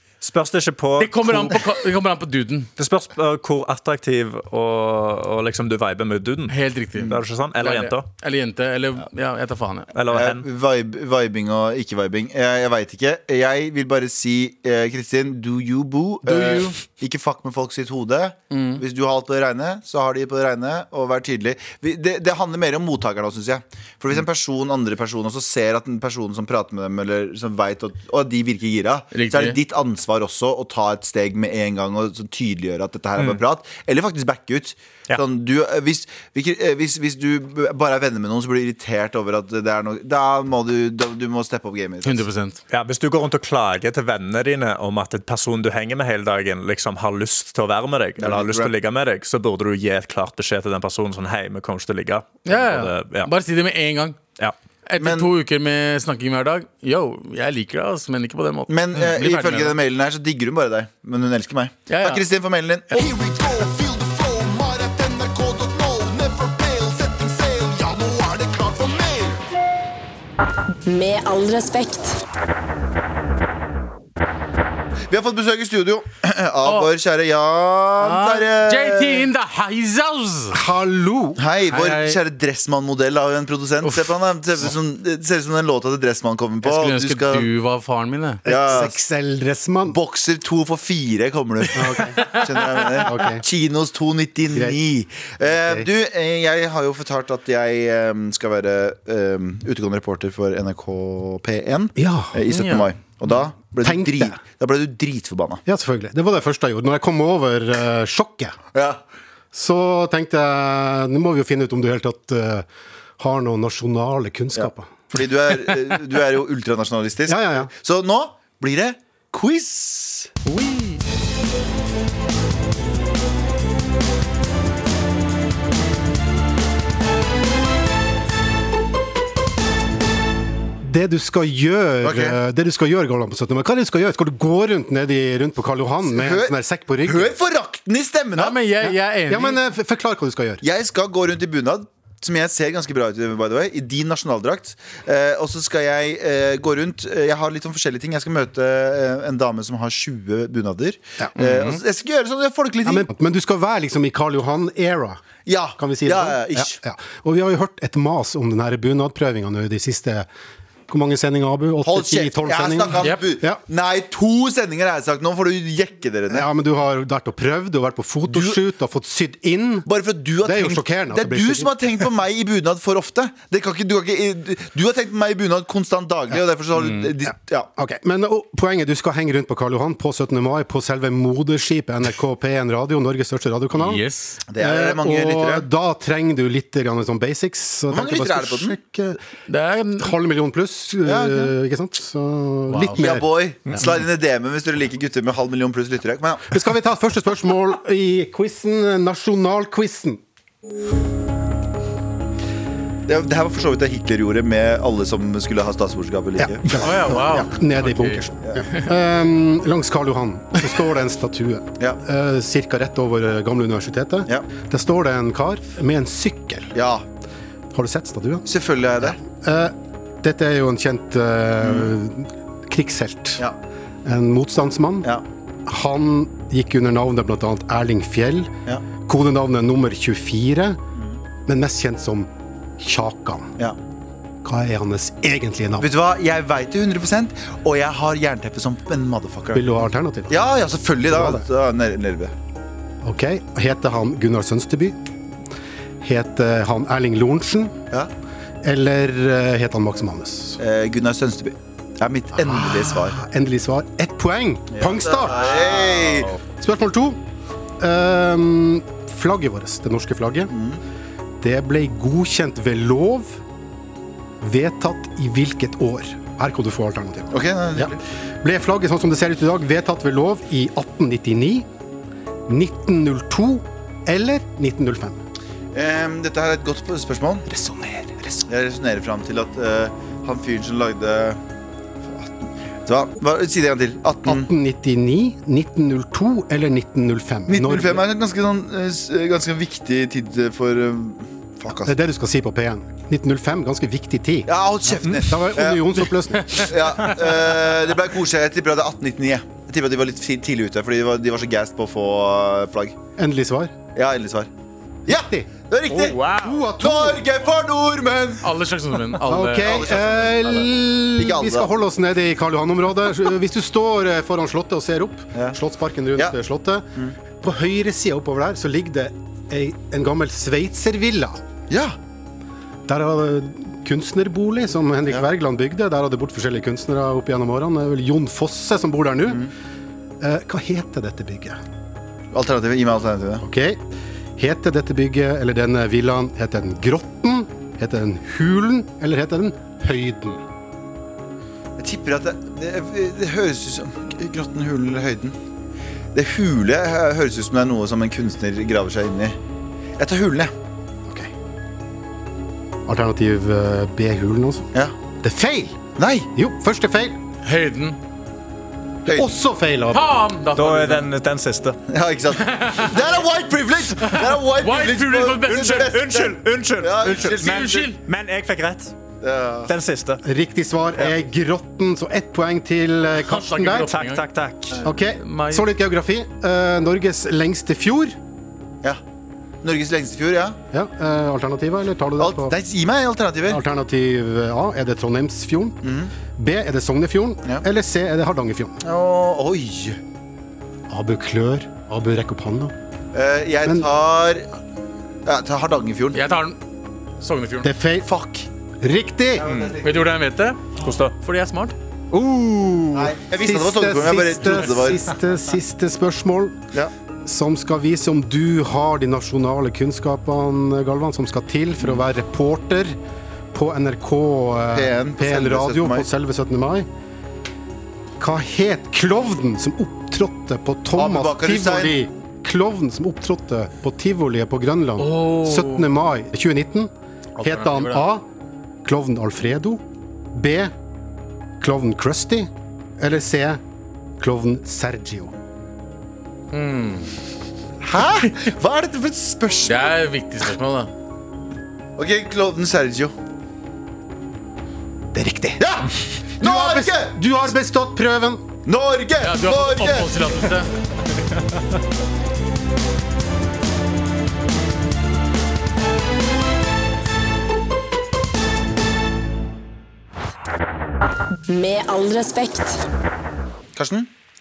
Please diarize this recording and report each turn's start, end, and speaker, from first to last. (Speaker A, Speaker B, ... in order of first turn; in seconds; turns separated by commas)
Speaker A: 0.2-1.6, Speaker B: 1.0-2.7, Speaker A: 2.8-8.1, Speaker B: 6.5-9.9, Speaker C: 6.9-7.2, Speaker A: 9.9-10.4, Speaker C: 10.1-42.3, Speaker B: 16.2-16.7, Speaker B: 18.5-18.8, Speaker B: 29.1-29.6, Speaker B: 42.0-42.6, Speaker A: 42.7-53.3, Speaker C: 48.2-48.7, Speaker B: 52.5-54.2, Speaker B: 54.9-59.7, Speaker C: 55.0-55.3, Speaker C: 58.7-63.0, Speaker B: 61.9-62.2, Speaker D: 62.9-69.4, Speaker E: 70.8-72.2, Speaker C: 75.1-79.3, Speaker B: 76.6-76.9, Speaker B: 78.0-80.5, Speaker F: 80.5-81.4, Speaker C: 81.3-87.5, Speaker B: 81.7-82.2, Speaker B: 83.8-84.1, Speaker B: 86.6-88.5, Speaker F: 88.4-90.0, Speaker C: 88.5-89.0, Speaker C: 89.9-105.6, Speaker F: 91.7-92.4, Speaker B: 91.9-93.0, Speaker F: 93.0-93.4, Speaker F: 94.5-94.8, Speaker F: 95.5-95.9, Speaker F: 102.0-102.4, Speaker B: 102.5-102.9, Speaker F: 103.3-104.4, Speaker F: 105.7-108.6, Speaker C: 108.7-109.0, Speaker F: 109.5-112.7, Speaker F: 113.2-115.1, Speaker C: 114.5-120.3, Speaker F: 117.3-117.7, Speaker F: 120.6-121.0, Speaker F: 130.8-137.3, Speaker C: 132.0-132.4, Speaker C: 136.1-138.6, Speaker B: 138.3-139.6, Speaker F: 138.8-140.6, Speaker C: 140.6-153.1, Speaker B: 151.4-151.8, Speaker F: 152.8-155.2, Speaker C: 155.4-156.8, Speaker F: 155.8-160.3, Speaker F: 160.9-163.6, Speaker C: 161.8-166.5, Speaker B: 163.0-163.2, Speaker F: 166.3-169.9, Speaker C: 168.3-168.6, Speaker C: 169.8-177.7, Speaker F: 170.4-172.0, Speaker B: 176.8-177.1, Speaker F: 177.2-184.0, Speaker B: 183.7-184.4, Speaker C: 184.5-185.7, Speaker F: 184.5-189.2, Speaker C: 187.9-188.8, Speaker B: 189.5-190.1, Speaker F: 190.0-193.8, Speaker C: 191.0-191.5, Speaker B: 192.7-193.1, Speaker C: 193.0-196.7, Speaker F: 196.5-200.2, Speaker C: 203.1-207.2, Speaker F: 206.4-216.7, Speaker B: 206.8-208.9, Speaker C: 216.7-217.0, Speaker F: 217.7-218.4, Speaker C: 218.4-219.2, Speaker F: 219.1-223.4, Speaker C: 221.6-221.9, Speaker F: 224.0-225.1, Speaker F: 225.7-230.8, Speaker F: 231.4-233.5, Speaker F: 234.4-235.9, Speaker C: 235.8-239.7, Speaker F: 239.5-240.4, Speaker C: 240.3-242.3, Speaker F: 241.1-241.4, Speaker F: 243.0-245.0, Speaker F: 246.0-247.7, Speaker F: 248.6-250.6, Speaker C: 250.6-253.2, Speaker F: 252.3-257.2, Speaker C: 254.7-256.3, Speaker F: 257.8-260.5, Speaker C: 260.5-260.8, Speaker F: 261.4-263.4, Speaker F: 264.4-271.7, Speaker C: 267.3-268.0, Speaker F: 272.5-275.2, Speaker C: 275.7-277.5, Speaker F: 277.5-278.4, Speaker C: 278.4-281.4, Speaker C: 282.1-282.3, Speaker C: 282.9-284.5, Speaker F: 284.2-288.0, Speaker C: 287.5-291.9, Speaker F: 291.7-294.5, Speaker C: 294.4-303.0, Speaker F: 295.2-296.9, Speaker F: 303.2-303.7, Speaker C: 303.9-304.5, Speaker F: 305.1-307.3, Speaker C: 305.1-308.4, Speaker B: 308.4-309.9, Speaker F: 309.2-316.9, Speaker C: 309.6-311.7, Speaker F: 317.4-321.4, Speaker C: 321.7-322.0, Speaker F: 322.9-329.5, Speaker C: 329.2-329.5, Speaker F: 330.2-331.6, Speaker C: 332.3-333.4, Speaker F: 333.4-333.8, Speaker F: 334.4-340.4, Speaker C: 341.8-345.4, Speaker C: 346.1-349.4, Speaker C: 350.0-350.5, Speaker F: 351.1-351.3, Speaker F: 352.9-354.7, Speaker F: 355.2-355.8, Speaker C: 356.0-356.3, Speaker F: 356.3-357.2, Speaker B: 357.4-358.0, Speaker C: 359.0-359.3, Speaker F: 359.1-360.1, Speaker B: 359.9-361.1, Speaker A: 360.6-361.8, Speaker C: 361.9-367.9, Speaker B: 362.4-363.0, Speaker B: 363.9-365.9, Speaker A: 365.5-368.9, Speaker B: 367.2-368.0, Speaker C: 369.2-369.7, Speaker A: 369.7-370.2, Speaker F: 370.2-373.9, Speaker B: 373.1-374.2, Speaker A: 373.9-374.8, Speaker F: 374.8-378.1, Speaker B: 375.1-375.7, Speaker C: 379.6-380.6, Speaker F: 380.7-382.5, Speaker C: 382.2-383.6, Speaker F: 383.5-385.8, Speaker C: 385.8-386.1, Speaker F: 386.4-388.8, Speaker C: 388.8-390.0, Speaker F: 390.9-392.7, Speaker C: 393.1-394.5, Speaker C: 395.2-396.2, Speaker B: 396.1-396.6, Speaker B: 397.2-397.7, Speaker F: 397.6-398.1, Speaker C: 398.0-398.5, Speaker F: 398.8-399.4, Speaker C: 399.3-400.1, Speaker B: 399.4-400.6, Speaker A: 400.8-401.1, Speaker B: 401.2-401.7, Speaker A: 402.1-403.1, Speaker C: 402.9-405.1, Speaker F: 403.3-406.6, Speaker F: 407.2-413.0, Speaker C: 411.8-412.0, Speaker F: 413.5-416.9, Speaker C: 414.7-416.1, Speaker F: 418.2-426.9, Speaker C: 420.9-422.1, Speaker B: 425.0-425.9, Speaker B: 427.4-428.1, Speaker F: 427.4-428.2, Speaker F: 428.8-430.7, Speaker F: 431.6-433.6, Speaker F: 434.2-435.3, Speaker B: 436.5-437.1, Speaker C: 437.8-439.9, Speaker B: 439.6-440.9, Speaker C: 442.0-443.1, Speaker F: 445.1-445.7, Speaker C: 445.6-447.5, Speaker F: 446.4-448.4, Speaker C: 448.6-450.1, Speaker B: 449.2-450.7, Speaker E: 461.5-462.8, Speaker C: 463.7-464.1